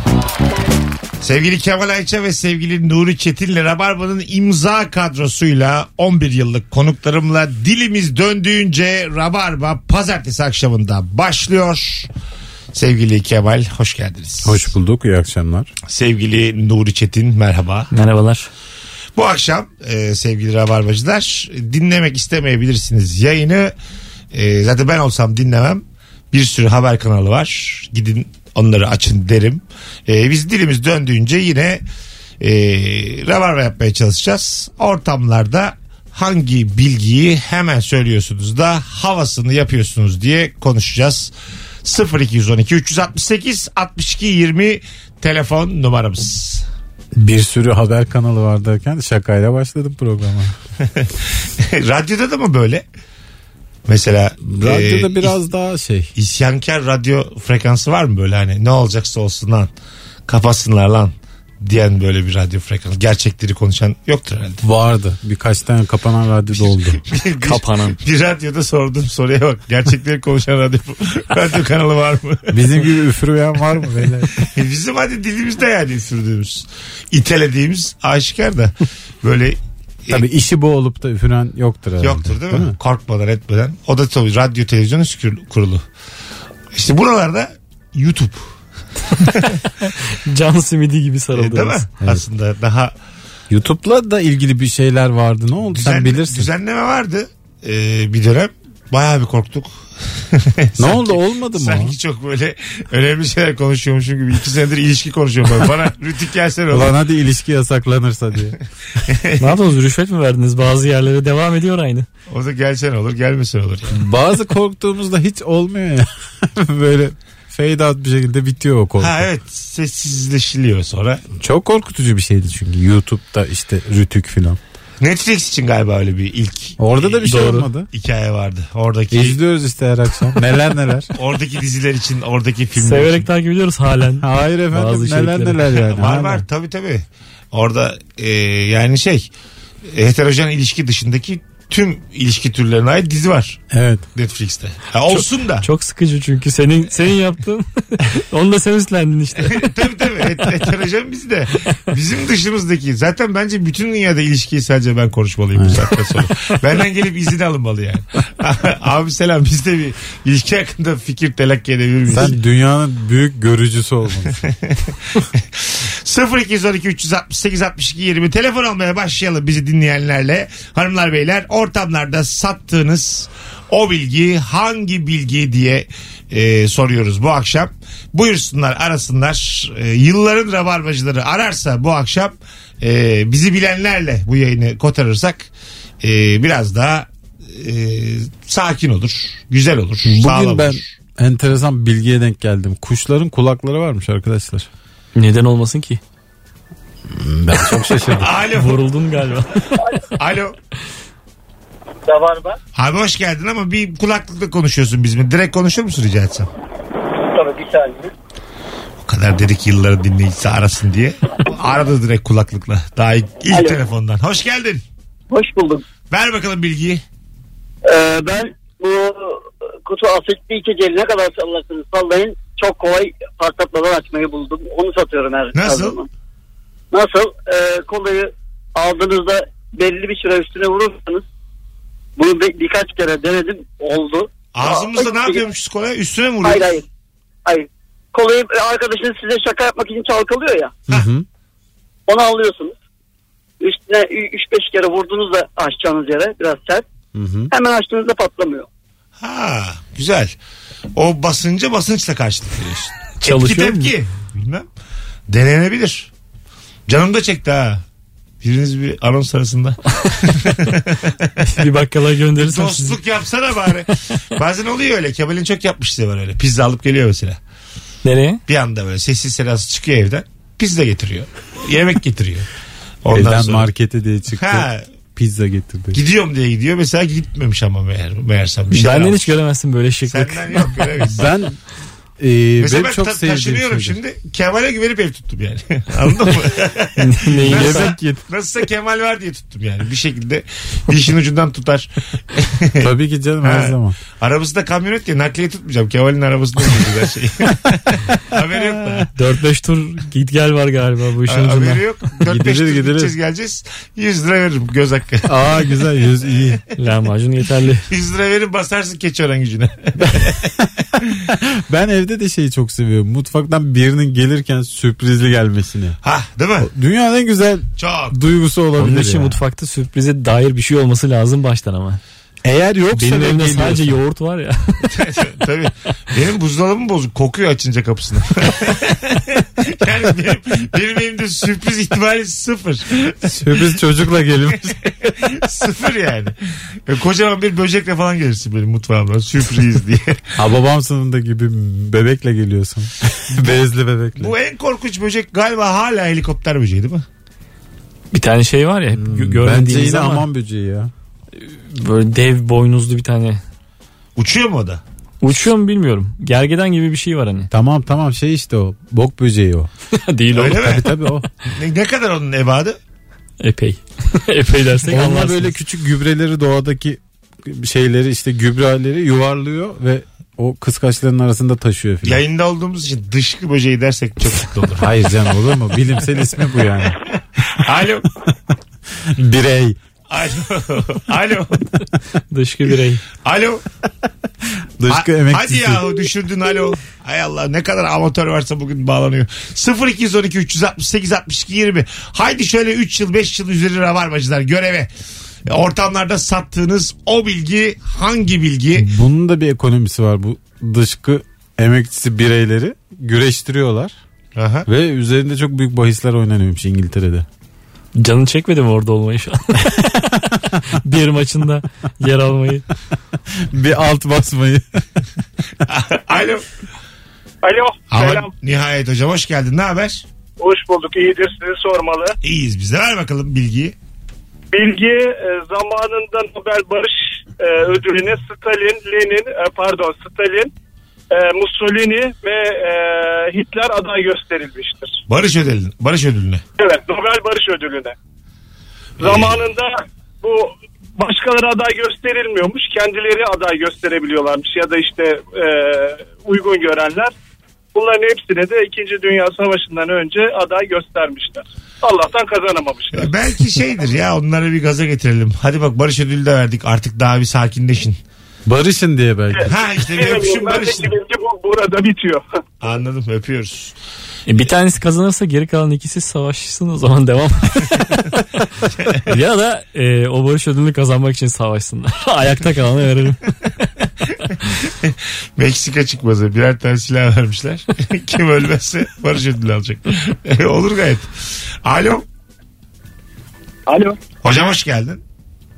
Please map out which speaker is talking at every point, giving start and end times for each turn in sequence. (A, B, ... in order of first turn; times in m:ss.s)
0:01.2-0:12.1 A
0:12.7-0:14.6 A
0:14.4-0:15.7 B
0:15.9-0:17.9 A
0:17.9-0:18.5 C
0:19.2-0:23.7 A
0:24.3-0:31.8 A
0:32.4-0:41.3 A
0:41.8-0:46.6 A
0:47.2-0:50.5 B
0:50.8-0:52.8 A
0:53.8-0:55.3 A
0:54.4-0:56.1 B
0:56.1-0:59.7 A
1:00.3-1:04.6 A
1:04.6-1:07.0 B
1:06.9-1:12.6 A
1:07.4-1:08.0 C
1:12.5-1:14.3 B
1:14.5-1:20.2 A
1:20.1-1:22.8 B
1:22.0-1:25.8 A
1:26.7-1:28.5 A
1:29.9-1:31.8 C
1:31.3-1:32.9 A
1:33.5-1:36.5 B
1:35.7-1:46.9 A
1:40.8-1:42.0 B
1:46.7-1:48.6 B
1:49.0-1:49.6 A
1:49.4-1:52.0 C
1:52.3-1:53.9 A
1:53.9-1:59.3 B
1:59.0-2:01.2 A
2:01.4-2:04.6 B
2:05.0-2:09.4 A
2:06.8-2:07.9 B
2:07.2-2:07.7 C
2:09.1-2:11.1 B
2:11.1-2:13.3 A
2:12.8-2:15.6 C
2:14.2-2:16.4 B
2:15.9-2:19.3 A
2:19.9-2:23.6 A
2:23.7-2:24.0 B
2:24.1-2:25.7 A
2:25.1-2:30.3 C
2:29.4-2:42.4 A
2:35.5-2:35.8 B
2:42.1-2:44.4 B
2:44.4-3:05.5 A
3:06.0-3:10.9 A
3:10.0-3:14.7 B
3:15.2-3:16.0 C
3:17.1-3:18.3 B
3:18.2-3:18.8 A
3:18.5-3:20.0 C
3:20.2-3:20.5 A
3:22.1-3:22.6 D
3:22.8-3:26.5 A
3:27.2-3:28.1 D
3:29.0-3:34.8 A
3:33.5-3:33.8 D
3:35.3-3:35.8 D
3:36.1-3:37.0 A
3:37.8-3:46.1 D
3:45.5-3:46.0 A
3:46.9-3:51.2 D
3:52.2-3:55.4 D
3:54.5-3:56.8 A
3:56.4-3:56.8 D
3:57.4-4:00.7 D
4:00.9-4:01.2 B
4:02.1-4:02.7 D
4:03.6-4:06.8 D
4:07.1-4:07.5 B
4:07.5-4:08.7 D
4:09.2-4:10.4 A
4:11.0-4:14.6 A
4:13.2-4:13.9 C
4:15.3-4:16.1 A
4:16.9-4:17.8 A
4:18.4-4:21.3 A
4:21.4-4:23.0 C
4:22.4-4:27.4 A
4:28.0-4:28.4 C
4:28.5-4:32.5 A
4:33.0-4:33.7 A
4:33.1-4:36.0 B
4:34.4-4:34.9 A
4:35.9-4:39.3 A
4:38.7-4:40.9 C
4:40.1-4:41.2 A
4:41.0-4:41.6 B
4:42.2-4:44.0 B
4:42.6-4:52.9 A
4:47.0-4:47.9 C
4:47.3-4:48.2 B
4:52.8-4:54.0 B
4:53.4-4:59.1 A
4:58.5-4:59.1 B
4:59.1-5:01.8 C
5:01.3-5:05.3 A
5:02.2-5:03.1 B
5:05.2-5:06.6 B
5:06.8-5:07.8 C
5:07.9-5:10.4 A
5:10.0-5:10.6 B
5:11.3-5:16.0 B
5:16.0-5:16.7 A
5:16.6-5:19.4 B
5:17.8-5:18.2 A
5:18.8-5:22.0 C
5:22.4-5:24.0 B
5:22.9-5:24.9 C
5:24.8-5:33.6 A
5:33.2-5:34.9 B
5:34.8-5:40.2 A
5:40.4-5:44.3 B
5:44.2-5:47.0 A
5:48.1-5:50.3 C
5:49.0-5:50.9 B
5:51.4-5:53.4 C
5:54.2-5:54.8 A
5:55.2-5:57.5 C
5:57.5-5:59.7 B
5:59.9-6:01.0 C
6:00.3-6:00.9 A
6:00.4-6:01.3 B
6:01.5-6:02.8 A
6:03.4-6:05.5 C
6:04.9-6:12.2 B
6:12.0-6:14.9 A
6:14.8-6:17.0 B
6:17.4-6:18.1 A
6:19.1-6:19.8 B
6:20.1-6:21.7 A
6:22.3-6:23.0 C
6:23.2-6:23.6 A
6:24.8-6:26.0 B
6:24.9-6:34.9 A
6:35.5-6:38.9 A
6:38.7-6:43.9 B
6:44.4-6:44.7 A
6:44.7-6:47.2 B
6:48.0-6:50.1 C
6:50.7-6:52.6 C
6:53.5-6:54.6 B
6:55.6-6:56.4 A
6:57.4-6:58.3 E
6:57.9-7:00.0 A
7:00.4-7:02.2 E
7:02.2-7:03.7 A
7:04.5-7:10.5 E
7:11.1-7:15.0 E
7:15.1-7:16.4 A
7:16.6-7:17.9 E
7:19.0-7:19.4 A
7:19.0-7:27.1 E
7:27.7-7:33.1 E
7:32.9-7:38.0 A
7:38.4-7:39.5 B
7:39.4-7:42.2 E
7:39.5-7:40.9 A
7:42.6-7:43.8 A
7:44.3-7:48.2 C
7:49.0-7:53.3 C
7:54.7-8:01.1 A
8:01.6-8:02.0 A
8:04.2-8:05.0 A